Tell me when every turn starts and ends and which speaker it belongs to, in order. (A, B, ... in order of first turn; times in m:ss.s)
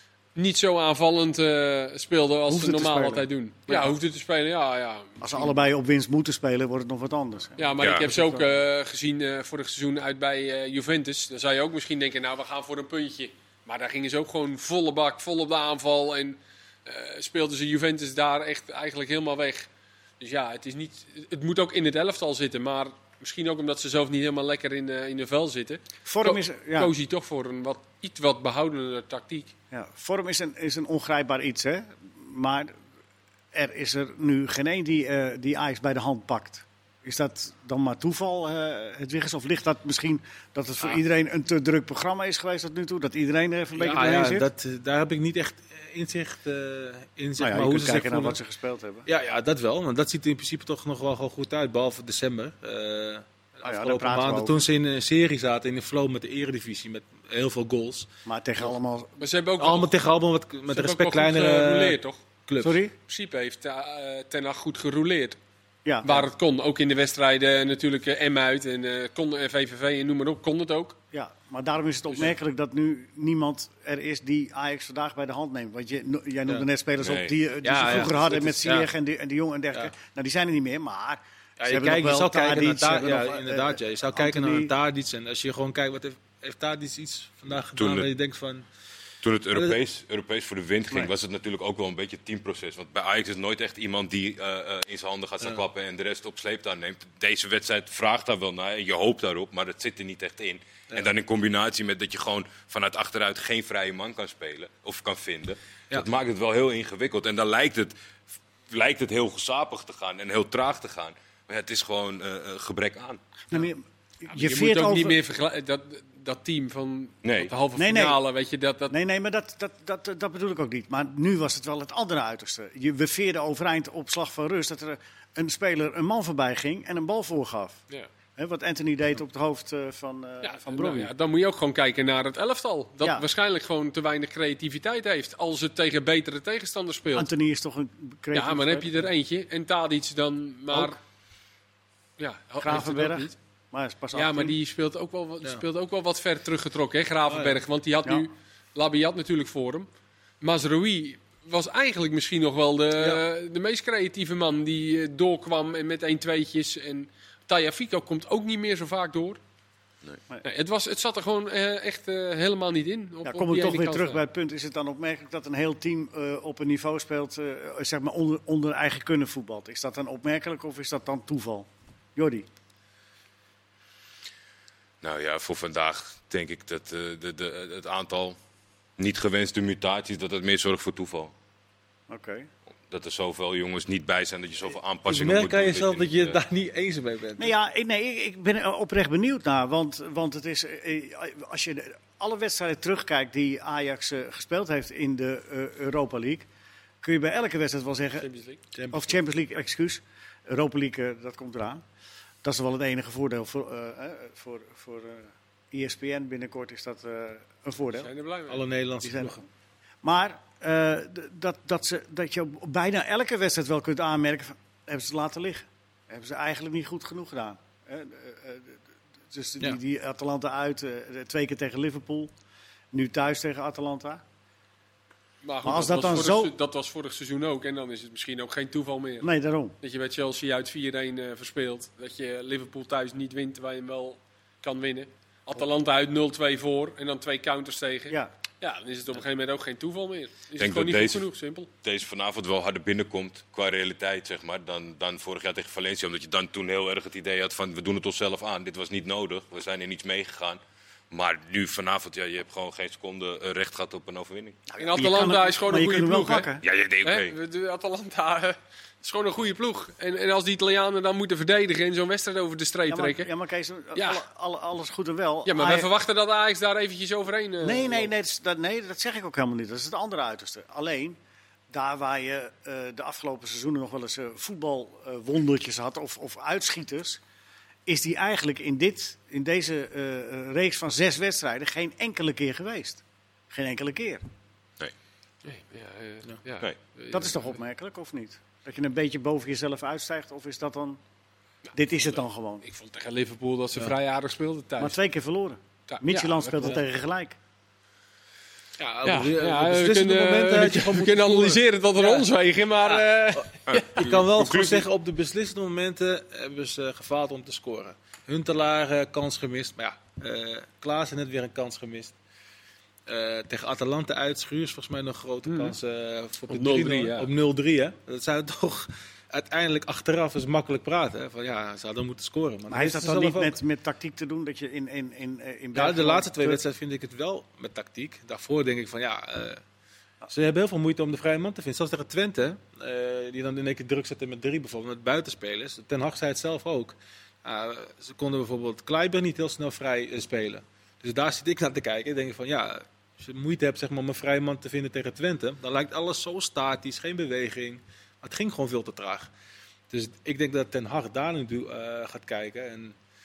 0:00.3-0:05.6 A
0:02.5-0:03.9 B
0:05.2-0:08.4 B
0:07.6-0:19.7 A
0:07.8-0:08.0 C
0:20.2-0:29.5 A
0:26.0-0:26.9 B
0:29.7-0:32.7 B
0:33.5-0:44.5 B
0:43.7-0:48.4 D
0:47.4-0:49.1 B
0:49.1-0:58.1 D
0:53.6-0:54.6 B
0:58.2-0:59.2 B
0:59.2-0:59.9 A
0:59.6-1:02.8 D
1:00.7-1:02.2 A
1:02.6-1:02.9 B
1:03.0-1:05.4 A
1:05.8-1:06.3 B
1:06.0-1:11.0 A
1:11.1-1:24.7 B
1:17.0-1:17.3 C
1:17.6-1:18.9 D
1:21.6-1:28.6 D
1:27.8-1:28.1 C
1:29.2-1:47.9 C
1:48.7-1:53.2 C
1:53.5-1:55.2 B
1:54.3-1:58.9 A
1:57.2-1:57.5 C
1:57.8-1:58.2 B
1:58.9-2:07.8 B
2:08.4-2:11.1 B
2:10.4-2:17.3 A
2:17.1-2:19.1 B
2:18.3-2:21.0 A
2:22.2-2:23.3 A
2:22.6-2:24.6 B
2:24.1-2:29.9 A
2:27.3-2:27.6 D
2:30.4-2:39.4 A
2:40.4-2:44.2 A
2:43.2-2:52.4 B
2:55.0-2:58.4 C
2:59.0-3:01.3 C
3:02.1-3:02.5 B
3:02.9-3:06.4 C
3:05.1-3:07.5 D
3:07.4-3:16.5 B
3:17.0-3:18.3 B
3:18.2-3:18.6 A
3:18.7-3:19.2 D
3:18.9-3:21.8 B
3:22.4-3:28.1 B
3:27.9-3:28.6 A
3:28.5-3:29.4 D
3:29.0-3:29.4 B
3:30.0-3:42.3 B
3:42.9-3:44.2 B
3:45.4-3:49.3 A
3:45.6-3:46.5 B
3:49.2-3:49.8 B
3:49.8-4:01.7 A
4:00.6-4:01.2 C
4:01.8-4:10.6 C
4:11.1-4:14.6 C
4:14.7-4:16.6 B
4:14.8-4:16.5 A
4:16.6-4:17.3 C
4:17.0-4:23.3 A
4:22.9-4:25.9 B
4:23.9-4:24.2 A
4:25.4-4:28.1 A
4:27.6-4:31.2 B
4:31.7-4:37.2 B
4:37.8-4:44.2 B
4:45.4-4:47.5 A
4:47.1-4:51.0 B
4:51.7-4:52.6 B
4:52.6-4:55.0 A
4:54.8-4:57.4 B
4:55.9-4:56.8 A
4:58.8-5:12.1 D
4:59.0-5:04.1 A
5:03.7-5:04.9 C
5:13.0-5:23.6 D
5:15.5-5:15.7 A
5:16.5-5:17.3 A
5:22.7-5:26.6 B
5:25.7-5:29.6 D
5:30.3-5:49.3 D
5:49.9-5:53.0 D